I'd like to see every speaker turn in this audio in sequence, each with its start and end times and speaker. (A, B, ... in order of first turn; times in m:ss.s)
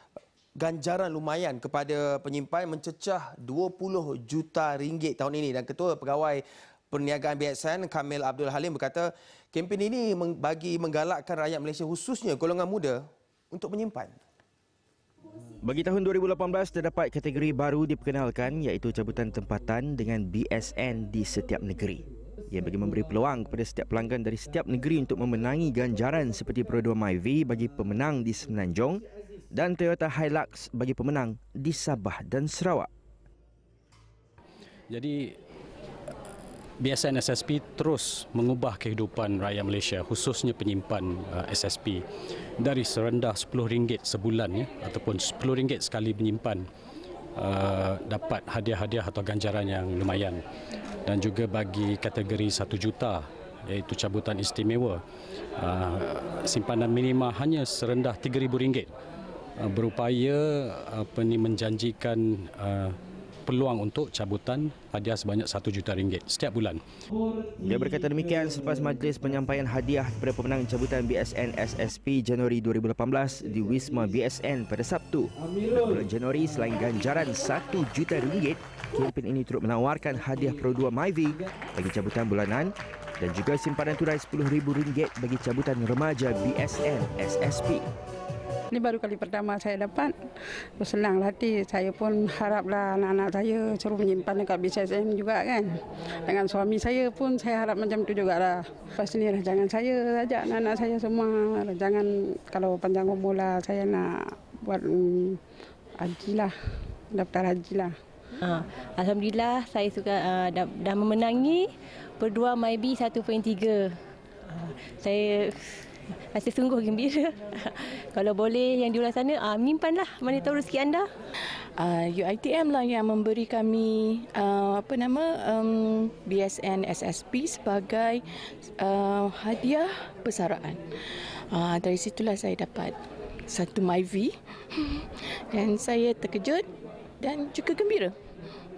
0:00.6-0:13.0 A
0:13.5-0:14.2 A
0:15.6-0:32.9 B
0:34.9-0:35.2 C
0:36.8-0:42.0 C
0:42.6-0:46.6 C
0:47.4-0:50.4 C
0:51.0-0:55.0 C
0:55.6-0:58.9 C
0:59.6-1:06.8 C
1:07.6-1:27.8 B
1:28.7-1:30.1 D
1:30.8-1:35.7 D
1:36.2-1:45.4 D
1:46.0-1:46.5 D
1:47.1-1:47.9 D
1:48.4-1:51.7 E
1:52.2-1:53.9 E
1:54.5-1:55.5 E
1:56.3-2:01.0 E
2:01.8-2:08.2 F
2:08.8-2:16.7 F
2:17.2-2:18.2 F